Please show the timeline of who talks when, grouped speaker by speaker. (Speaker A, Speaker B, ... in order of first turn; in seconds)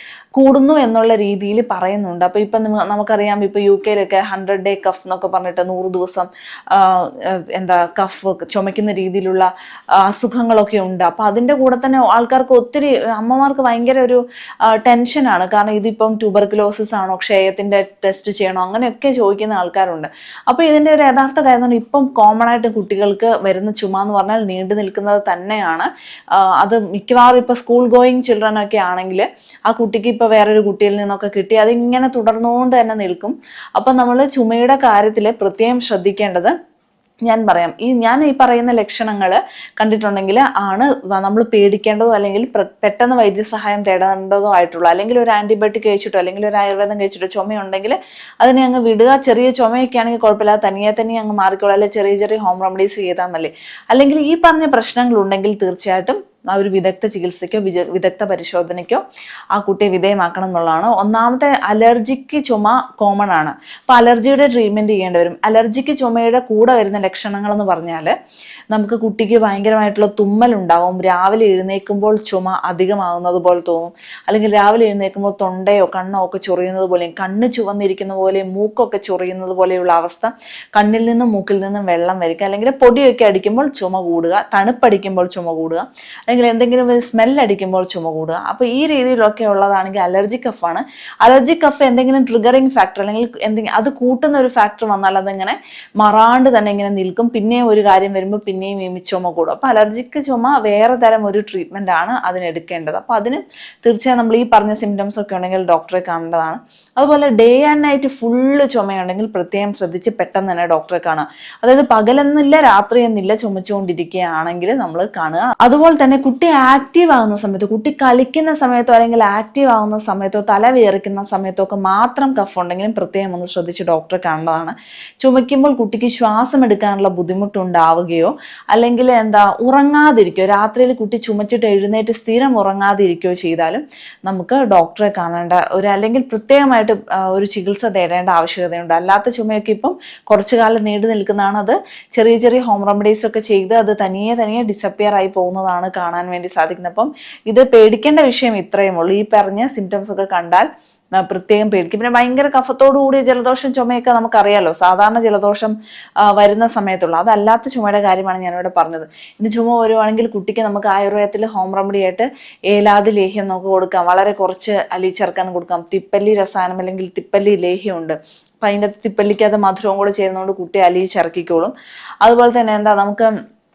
Speaker A: 0.3-9.5, 10.0-36.5, 37.3-59.0, 59.5-68.1, 68.7-173.3